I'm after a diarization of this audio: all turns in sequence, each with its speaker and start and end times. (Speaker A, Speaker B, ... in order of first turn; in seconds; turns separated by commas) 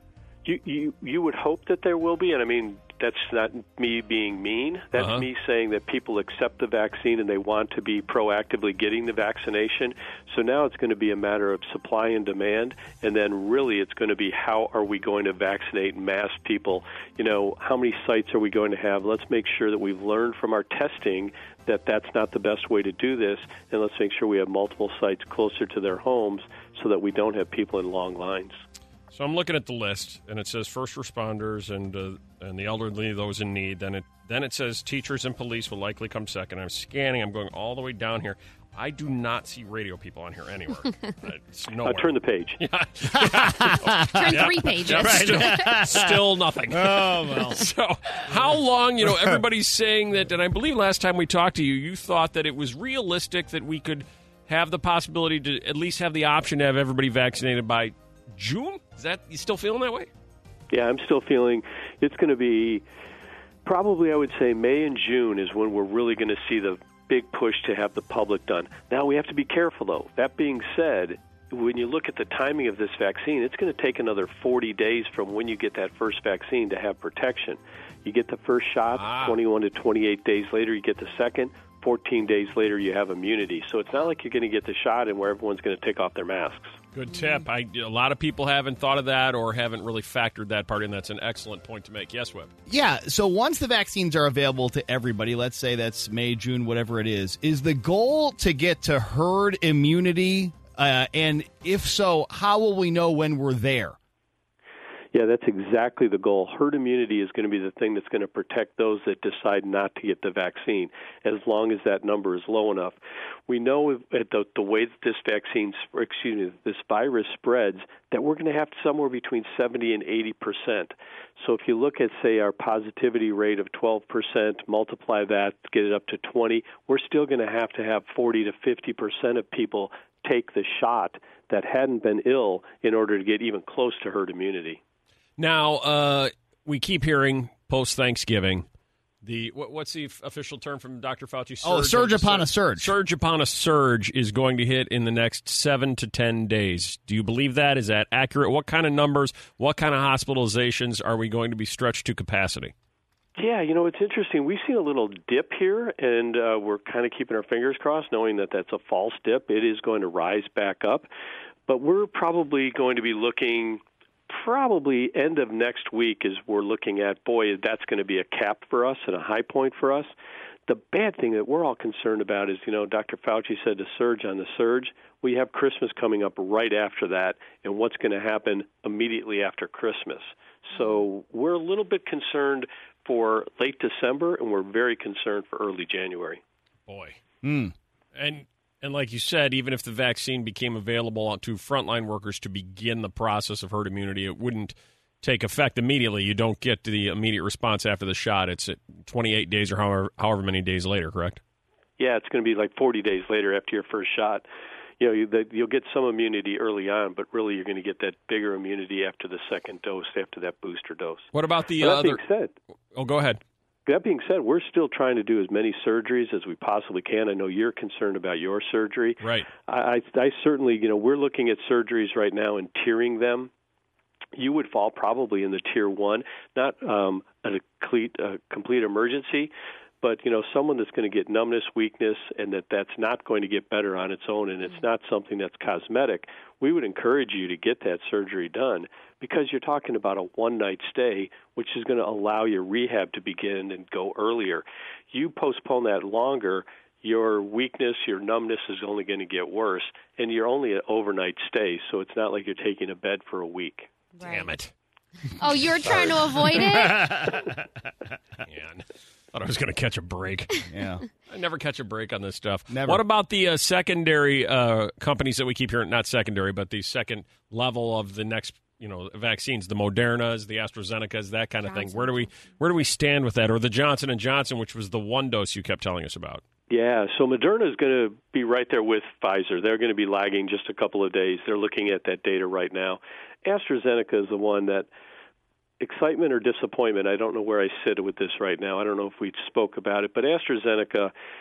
Speaker A: 0.5-28.6, Speaker B: 5.0-5.2, Speaker B: 29.1-60.1, Speaker A: 41.8-42.6, Speaker C: 43.1-47.6, Speaker D: 44.1-45.7, Speaker C: 49.0-49.4, Speaker A: 60.7-62.8, Speaker A: 63.6-86.8, Speaker B: 79.0-79.4, Speaker B: 86.9-92.5, Speaker D: 87.1-87.4, Speaker C: 92.7-104.0, Speaker A: 105.1-134.8, Speaker B: 135.4-138.7, Speaker B: 139.2-152.7, Speaker C: 141.6-142.9, Speaker A: 153.4-161.1, Speaker A: 161.7-170.1, Speaker A: 170.7-186.4, Speaker B: 186.9-187.2, Speaker C: 187.4-187.7, Speaker B: 188.2-201.4, Speaker A: 202.0-204.5, Speaker A: 205.0-212.5, Speaker B: 211.3-212.2, Speaker B: 212.9-213.4, Speaker A: 213.9-223.5, Speaker B: 219.2-219.5, Speaker A: 224.4-229.5, Speaker A: 230.0-253.9, Speaker D: 254.2-254.5, Speaker B: 254.2-254.7, Speaker D: 255.4-257.1, Speaker C: 255.9-257.5, Speaker B: 258.5-260.6, Speaker C: 260.7-261.0, Speaker B: 261.3-276.4, Speaker C: 262.7-263.0, Speaker D: 271.6-272.5, Speaker A: 276.7-284.9, Speaker A: 285.8-291.1